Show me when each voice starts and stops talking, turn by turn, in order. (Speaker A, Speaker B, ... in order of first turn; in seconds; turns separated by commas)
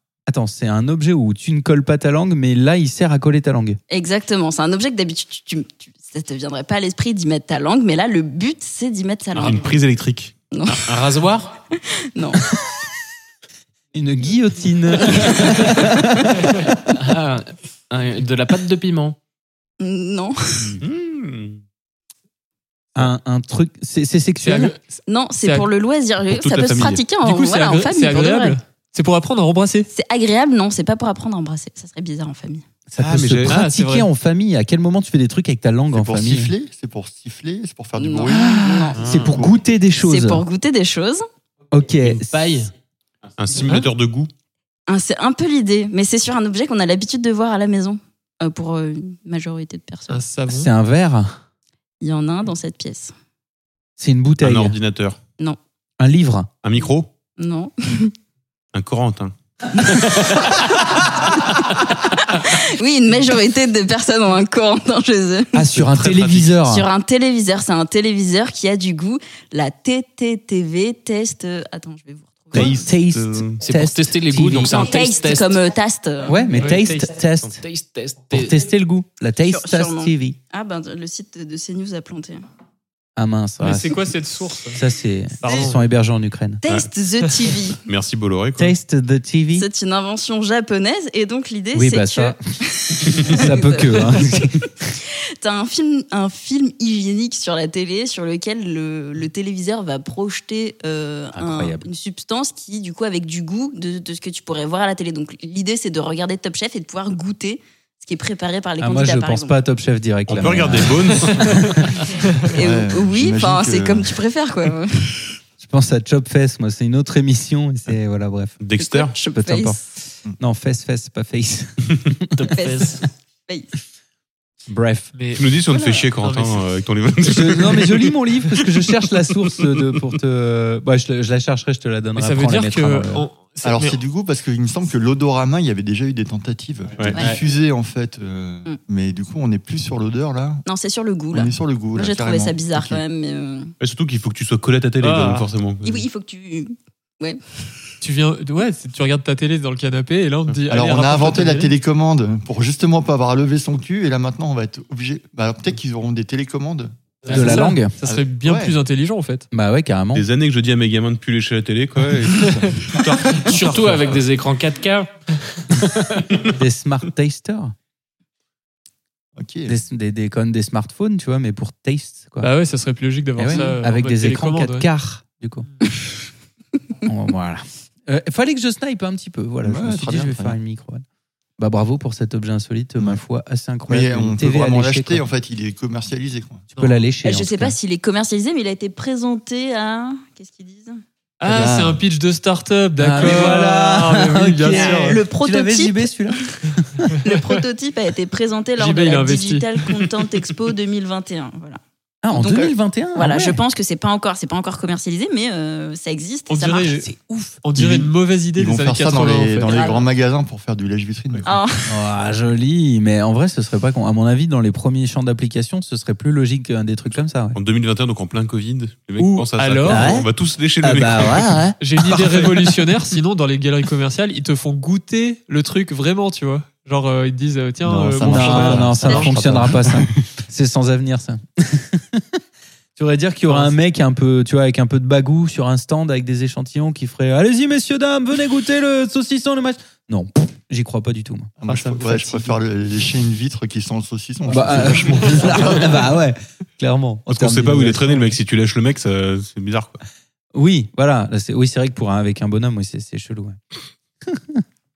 Speaker A: 0.3-3.8, Speaker B: 3.9-9.7, Speaker C: 9.3-9.6, Speaker D: 9.4-10.3, Speaker B: 10.5-11.0, Speaker C: 10.7-11.5, Speaker B: 11.8-12.5, Speaker A: 13.9-16.5, Speaker B: 15.0-15.3, Speaker C: 17.0-19.2, Speaker B: 19.8-20.8, Speaker D: 20.7-21.6, Speaker A: 22.9-24.7, Speaker E: 24.4-25.7, Speaker B: 25.1-28.6, Speaker D: 26.2-27.0, Speaker E: 27.2-29.9, Speaker B: 29.9-32.6, Speaker A: 32.9-36.5, Speaker D: 33.0-33.5, Speaker E: 33.5-34.1, Speaker F: 35.9-39.5, Speaker B: 38.0-39.1, Speaker A: 38.3-40.4, Speaker C: 38.9-39.4, Speaker B: 40.0-41.2, Speaker A: 41.7-42.4, Speaker C: 42.0-42.7, Speaker D: 43.4-44.3, Speaker B: 44.9-50.2, Speaker E: 50.1-50.7, Speaker A: 50.5-51.4, Speaker B: 52.0-53.1, Speaker A: 54.0-54.8, Speaker D: 54.4-55.2, Speaker A: 56.0-56.5, Speaker D: 56.6-57.1, Speaker B: 57.4-58.1, Speaker D: 58.7-59.3, Speaker B: 60.5-60.7, Speaker B: 61.6-65.7, Speaker A: 65.5-66.8, Speaker D: 65.9-66.2, Speaker B: 66.6-72.8, Speaker A: 72.5-74.9, Speaker D: 72.5-73.6, Speaker C: 73.6-75.6, Speaker B: 74.7-76.6, Speaker A: 76.3-77.6, Speaker E: 76.6-77.0, Speaker C: 76.8-78.6, Speaker A: 78.3-80.4, Speaker B: 79.4-82.4, Speaker A: 83.2-84.1, Speaker E: 83.6-84.8, Speaker A: 84.7-86.6, Speaker E: 85.4-85.9, Speaker B: 86.6-87.8, Speaker D: 87.8-88.8, Speaker A: 88.6-89.7, Speaker B: 89.5-94.5, Speaker A: 91.7-92.4, Speaker A: 93.2-94.9, Speaker B: 95.0-109.6, Speaker A: 101.3-101.8, Speaker A: 108.8-111.8, Speaker D: 110.3-111.7, Speaker F: 112.5-114.2, Speaker B: 112.5-115.3, Speaker A: 115.6-118.6, Speaker D: 118.6-119.1, Speaker B: 118.8-119.8, Speaker A: 119.3-122.5, Speaker C: 122.4-123.0, Speaker B: 122.5-123.7, Speaker A: 124.7-125.1, Speaker E: 125.1-126.7, Speaker D: 125.3-128.1, Speaker A: 127.2-133.3, Speaker E: 132.2-134.0, Speaker F: 133.6-140.6, Speaker B: 140.6-143.7, Speaker F: 141.3-143.0, Speaker D: 143.8-146.1, Speaker E: 145.0-145.5, Speaker B: 145.8-147.4, Speaker E: 148.0-151.7, Speaker F: 150.7-156.9, Speaker C: 157.2-157.6, Speaker E: 157.2-159.5, Speaker A: 157.3-157.9, Speaker F: 158.0-158.7, Speaker A: 159.5-160.2, Speaker D: 160.1-162.9, Speaker F: 162.3-162.7, Speaker E: 162.9-164.0, Speaker C: 163.4-166.3, Speaker A: 166.6-167.7, Speaker F: 169.3-169.8, Speaker A: 169.7-172.5, Speaker E: 172.4-174.9, Speaker A: 173.3-175.7, Speaker A: 177.0-181.0, Speaker F: 179.6-180.6, Speaker A: 181.6-185.2, Speaker F: 183.9-186.7, Speaker E: 186.7-187.1, Speaker A: 186.8-187.7, Speaker B: 187.2-191.0, Speaker E: 191.4-195.2, Speaker F: 191.5-192.0, Speaker A: 193.0-197.1, Speaker B: 194.7-196.5, Speaker E: 197.1-197.6, Speaker B: 197.2-201.8, Speaker E: 198.8-200.1, Speaker A: 202.2-203.6, Speaker B: 202.3-207.0, Speaker E: 206.5-207.1, Speaker A: 207.0-207.6, Speaker E: 207.6-209.9, Speaker F: 207.8-211.5, Speaker B: 209.7-210.1, Speaker B: 211.4-211.9, Speaker A: 211.9-217.6, Speaker D: 217.5-221.5, Speaker E: 219.2-220.1, Speaker A: 219.9-220.3, Speaker A: 220.8-222.7, Speaker E: 221.8-229.3, Speaker F: 227.8-230.2, Speaker A: 228.2-232.4, Speaker A: 232.9-241.5, Speaker E: 233.5-233.7, Speaker F: 241.6-246.1, Speaker E: 241.7-242.6, Speaker A: 244.5-248.1, Speaker E: 245.2-245.5, Speaker D: 247.3-250.0, Speaker A: 250.5-253.6, Speaker A: 254.3-254.6